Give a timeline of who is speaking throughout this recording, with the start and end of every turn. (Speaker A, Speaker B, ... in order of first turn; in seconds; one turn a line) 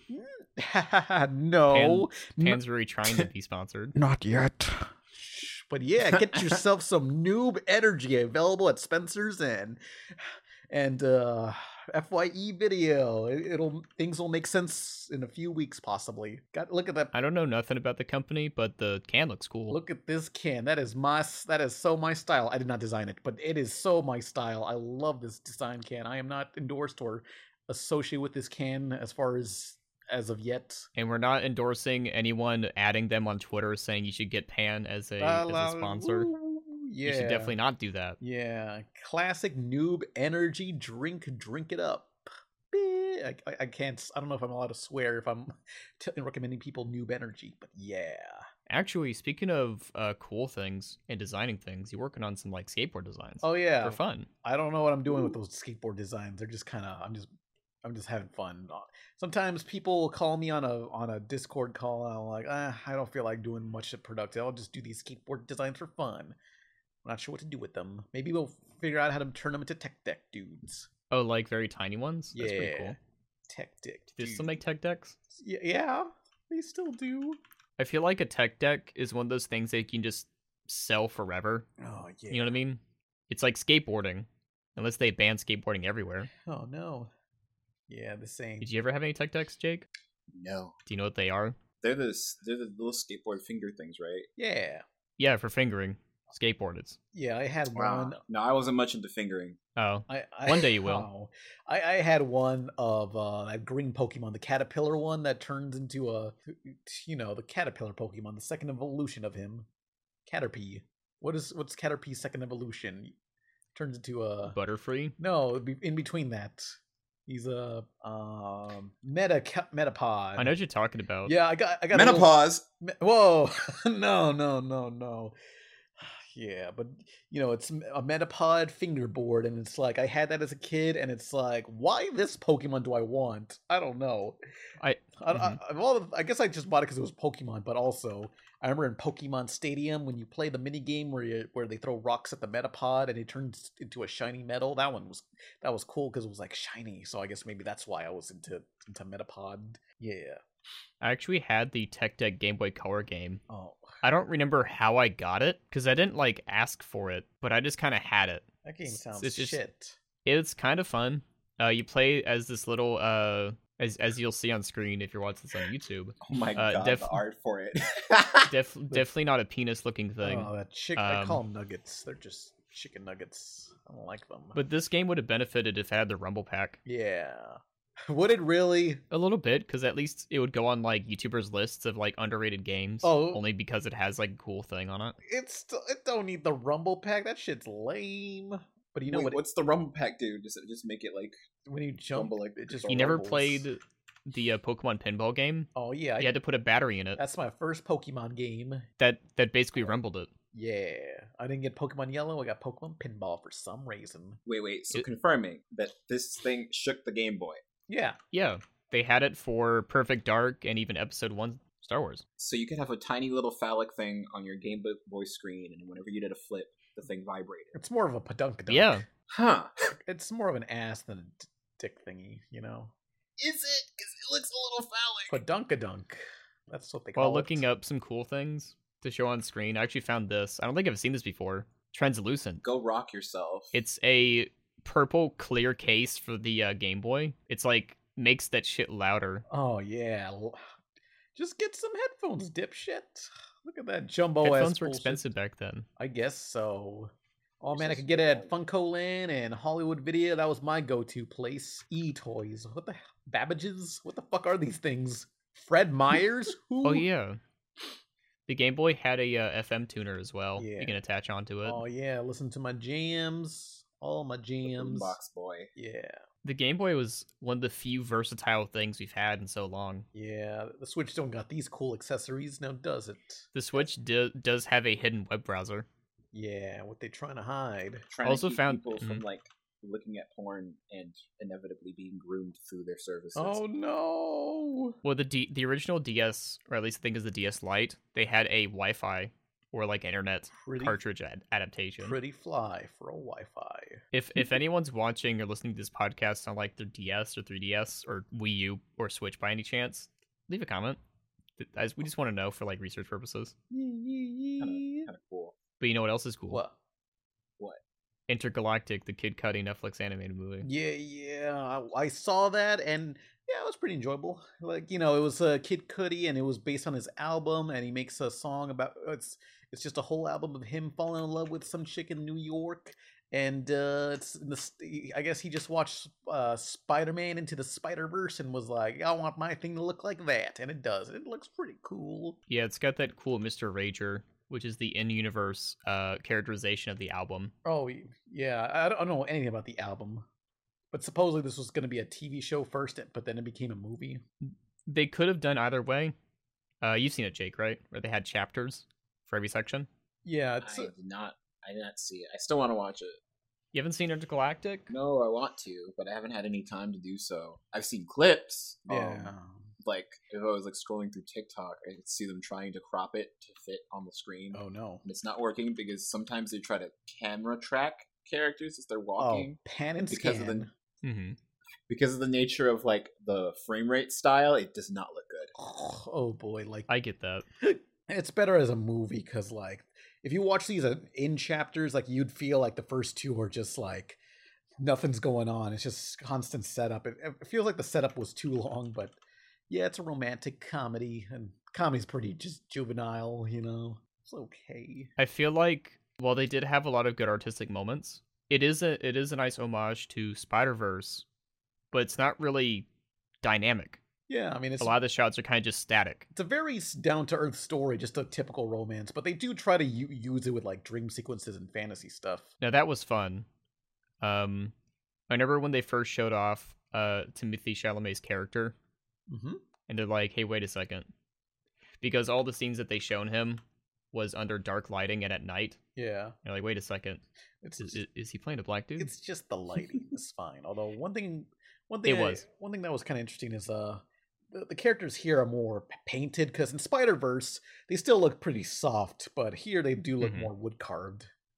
Speaker A: 0.1-2.6
Speaker B: 1.7-4.0
Speaker A: 4.0-17.1
Speaker B: 17.1-19.8
Speaker A: 19.7-30.9
Speaker B: 31.0-36.3
Speaker A: 35.2-37.6
Speaker B: 37.0-38.2
Speaker A: 38.2-42.2
Speaker A: 42.7-48.5
Speaker B: 48.7-54.3
Speaker A: 53.4-57.3
Speaker A: 57.8-66.4
Speaker A: 67.0-70.9
Speaker B: 71.1-73.0
Speaker A: 72.3-74.6
Speaker B: 74.2-75.2
Speaker A: 75.3-77.4
Speaker B: 77.8-81.7
Speaker A: 81.8-82.6
Speaker B: 82.3-86.3
Speaker A: 86.5-87.1
Speaker A: 87.9-88.7
Speaker B: 88.6-89.9
Speaker C: 90.3-90.8
Speaker B: 90.9-91.6
Speaker C: 91.8-94.3
Speaker A: 94.4-94.8
Speaker B: 95.2-97.0
Speaker A: 97.1-98.2
Speaker C: 97.7-99.6
Speaker B: 99.8-101.1
Speaker A: 100.1-109.7
Speaker A: 110.3-113.1
Speaker A: 113.7-114.6
Speaker B: 114.4-115.2
Speaker A: 115.2-116.8
Speaker A: 117.3-120.5
Speaker B: 120.4-121.3
Speaker A: 121.2-125.3
Speaker C: 121.9-122.6
Speaker A: 126.0-134.4
Speaker B: 134.8-135.6
Speaker A: 135.2-150.4
Speaker B: 151.0-153.4
Speaker A: 153.5-153.9
Speaker B: 154.0-159.6
Speaker A: 158.7-160.0
Speaker B: 160.2-167.2
Speaker C: 166.2-168.5
Speaker B: 168.4-171.4
Speaker A: 170.2-174.6
Speaker B: 174.6-176.8
Speaker A: 176.9-179.0
Speaker B: 179.1-185.2
Speaker A: 183.0-183.4
Speaker A: 185.2-189.4
Speaker C: 189.1-191.4
Speaker A: 191.7-193.7
Speaker C: 192.1-193.3
Speaker B: 192.9-197.2
Speaker A: 195.8-196.4
Speaker A: 197.2-198.9
Speaker B: 199.0-200.3
Speaker A: 200.5-204.4
Speaker C: 204.5-207.6
Speaker A: 207.9-208.2
Speaker B: 208.3-212.2
Speaker C: 212.4-217.8
Speaker A: 217.7-219.0
Speaker B: 218.7-219.1
Speaker C: 219.3-219.8
Speaker A: 219.9-222.9
Speaker C: 223.4-225.4
Speaker A: 225.3-227.7
Speaker B: 227.2-232.6
Speaker C: 232.6-233.8
Speaker B: 233.7-239.5
Speaker A: 239.5-240.6
Speaker A: 241.3-245.2
Speaker B: 244.4-245.9
Speaker A: 246.0-257.1
Speaker C: 247.7-248.6
Speaker B: 256.8-257.4
Speaker B: 258.5-261.8
Speaker A: 260.6-261.0
Speaker A: 261.6-265.2
Speaker C: 264.6-265.7
Speaker A: 265.8-266.2
Speaker B: 266.4-270.1
Speaker A: 270.1-273.5
Speaker B: 273.5-275.9
Speaker A: 276.3-278.1
Speaker C: 278.1-283.6
Speaker B: 278.2-279.2
Speaker A: 283.4-285.0
Speaker B: 285.0-292.2
Speaker A: 290.6-291.0
Speaker A: 292.0-294.0
Speaker B: 294.1-301.0
Speaker B: 301.6-303.5
Speaker A: 303.7-305.1
Speaker C: 304.6-305.6
Speaker B: 305.8-306.6
Speaker A: 306.5-306.8
Speaker B: 308.3-310.7
Speaker A: 310.6-332.4
Speaker B: 332.5-337.5
Speaker A: 337.6-340.3
Speaker A: 340.9-344.2
Speaker B: 344.4-346.1
Speaker B: 346.8-349.9
Speaker A: 350.2-350.9
Speaker C: 350.6-353.2
Speaker B: 353.7-354.9
Speaker C: 354.9-370.7
Speaker A: 358.9-359.6
Speaker A: 364.5-365.0
Speaker A: 369.2-370.7
Speaker B: 371.0-371.4
Speaker C: 371.9-375.5
Speaker A: 375.6-376.9
Speaker B: 376.9-377.4
Speaker A: 377.6-384.2
Speaker A: 384.8-389.2
Speaker A: 389.7-395.1
Speaker B: 395.2-401.2
Speaker B: 401.9-402.9
Speaker B: 403.4-404.0
Speaker A: 404.3-404.9
Speaker B: 404.8-406.3
Speaker A: 406.3-412.5
Speaker B: 412.6-413.5
Speaker B: 414.2-414.7
Speaker B: 415.3-418.8
Speaker A: 419.3-419.6
Speaker B: 419.9-421.1
Speaker B: 422.0-425.8
Speaker A: 426.0-426.4
Speaker B: 426.4-427.2
Speaker A: 427.6-428.0
Speaker B: 427.8-429.1
Speaker A: 429.0-441.3
Speaker B: 432.1-432.4
Speaker B: 440.2-440.5